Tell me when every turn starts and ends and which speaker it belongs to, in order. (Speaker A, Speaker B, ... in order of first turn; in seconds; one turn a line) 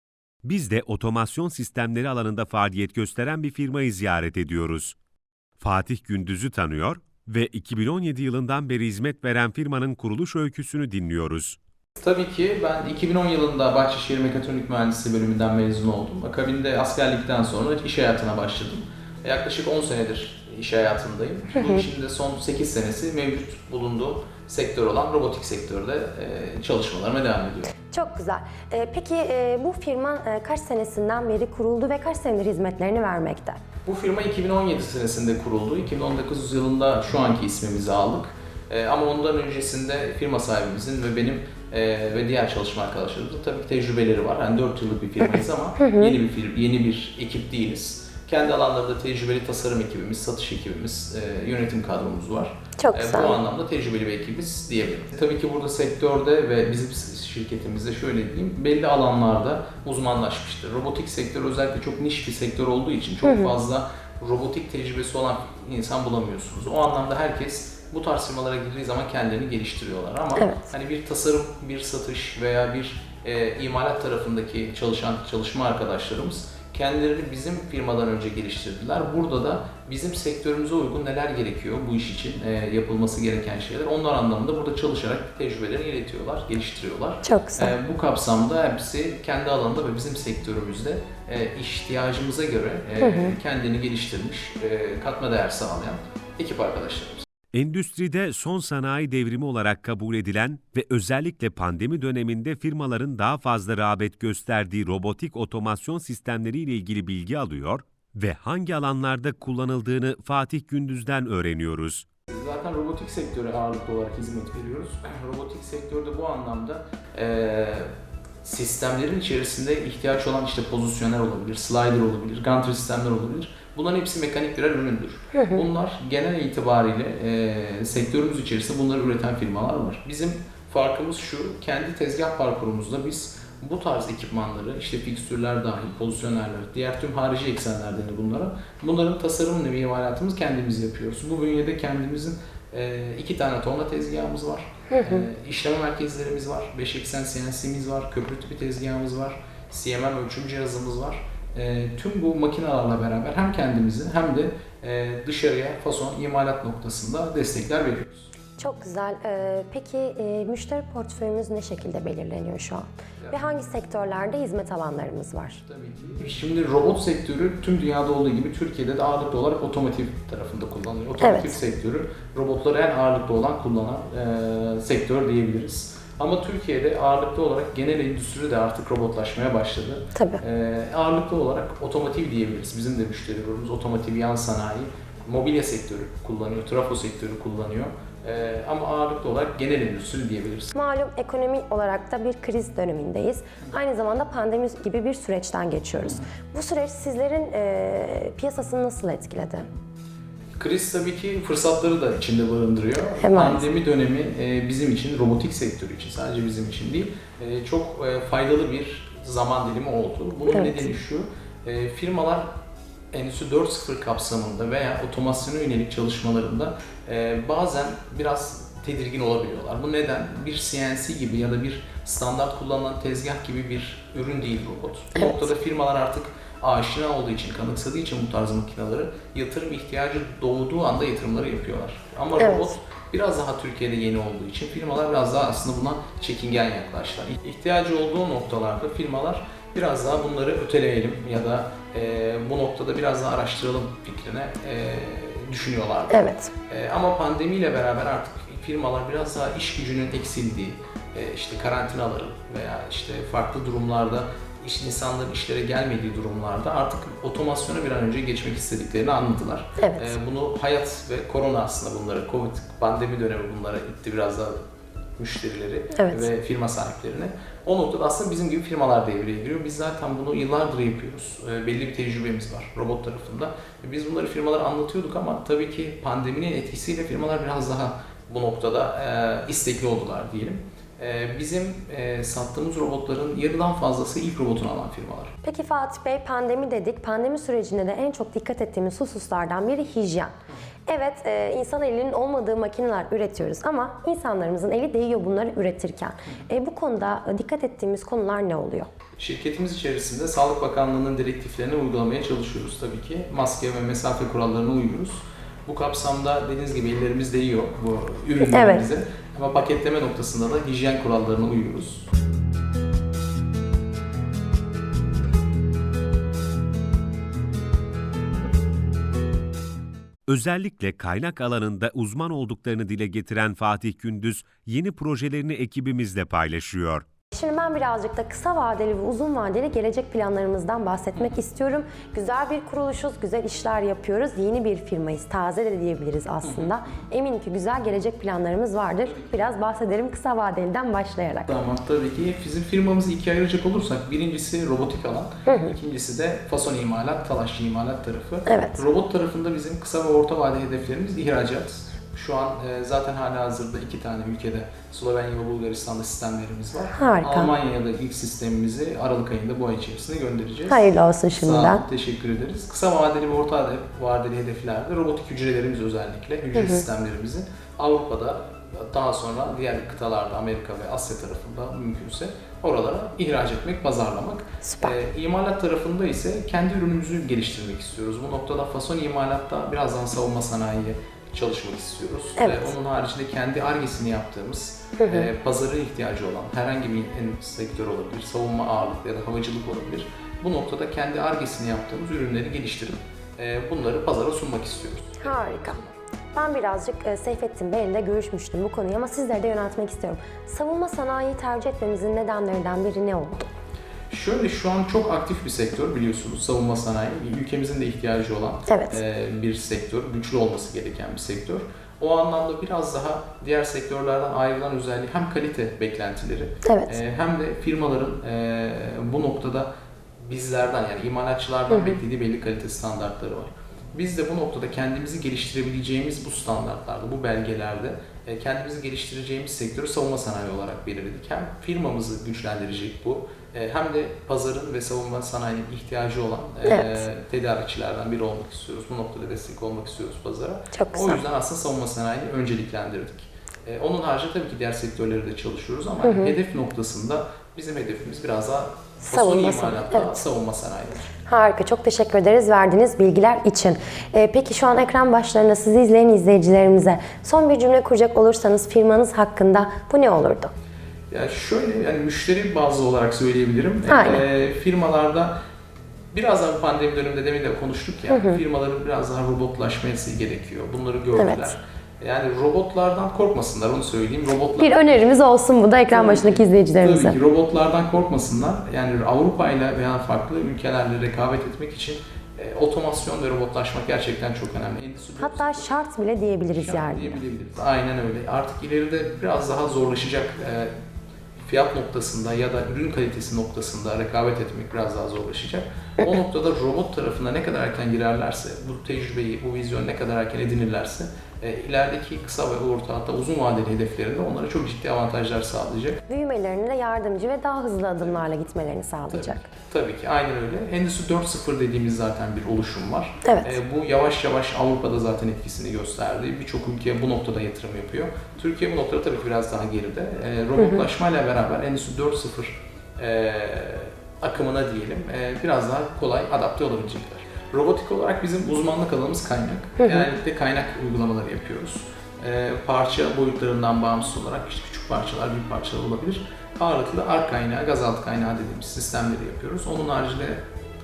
Speaker A: 0.4-5.0
Speaker A: 5.6-11.6
Speaker B: 12.0-27.7
Speaker C: 21.6-21.8
Speaker C: 27.9-33.6
Speaker B: 33.9-97.2
Speaker C: 45.8-46.1
Speaker C: 52.8-53.4
Speaker C: 63.2-63.5
Speaker C: 70.4-70.6
Speaker C: 87.2-87.8
Speaker C: 93.0-93.4
Speaker A: 97.5-112.0
Speaker B: 112.3-117.9
Speaker B: 118.4-158.3
Speaker C: 125.3-125.6
Speaker C: 144.9-145.3
Speaker C: 158.6-165.6
Speaker B: 165.7-190.7
Speaker C: 171.2-171.6
Speaker C: 180.2-180.4
Speaker C: 190.7-199.7
Speaker B: 200.6-212.5
Speaker C: 203.2-203.7
Speaker C: 210.5-210.8
Speaker B: 213.1-264.6
Speaker C: 232.4-232.8
Speaker C: 246.1-246.5
Speaker C: 259.8-260.1
Speaker B: 265.2-285.3
Speaker C: 265.9-266.3
Speaker C: 285.4-290.3
Speaker C: 290.9-298.9
Speaker B: 299.2-312.1
Speaker C: 308.4-308.9
Speaker A: 320.3-327.1
Speaker C: 327.3-341.5
Speaker B: 336.4-336.7
Speaker B: 339.1-339.5
Speaker B: 341.5-396.0
Speaker C: 345.5-345.7
Speaker C: 348.5-348.8
Speaker C: 356.9-357.5
Speaker C: 360.7-361.8
Speaker C: 366.5-366.8
Speaker C: 374.6-374.9
Speaker C: 382.4-382.7
Speaker C: 385.0-385.3
Speaker C: 395.2-395.8
Speaker C: 396.3-403.5
Speaker B: 404.1-419.7
Speaker C: 408.7-409.0
Speaker C: 416.6-417.0
Speaker B: 420.2-451.1
Speaker C: 421.7-422.0
Speaker C: 436.7-437.0
Speaker C: 440.7-441.2
Speaker C: 446.0-446.4
Speaker C: 449.0-450.2
Speaker C: 451.3-460.5
Speaker B: 461.1-465.3
Speaker C: 463.9-464.2
Speaker B: 466.1-474.8
Speaker C: 468.1-468.4
Speaker C: 471.1-471.6
Speaker C: 474.6-477.2
Speaker B: 475.9-485.7
Speaker C: 485.2-487.2
Speaker B: 486.6-490.7
Speaker B: 491.5-506.0
Speaker C: 506.1-509.5
Speaker B: 509.1-540.4
Speaker C: 513.2-513.5
Speaker C: 520.6-520.9
Speaker C: 529.8-530.1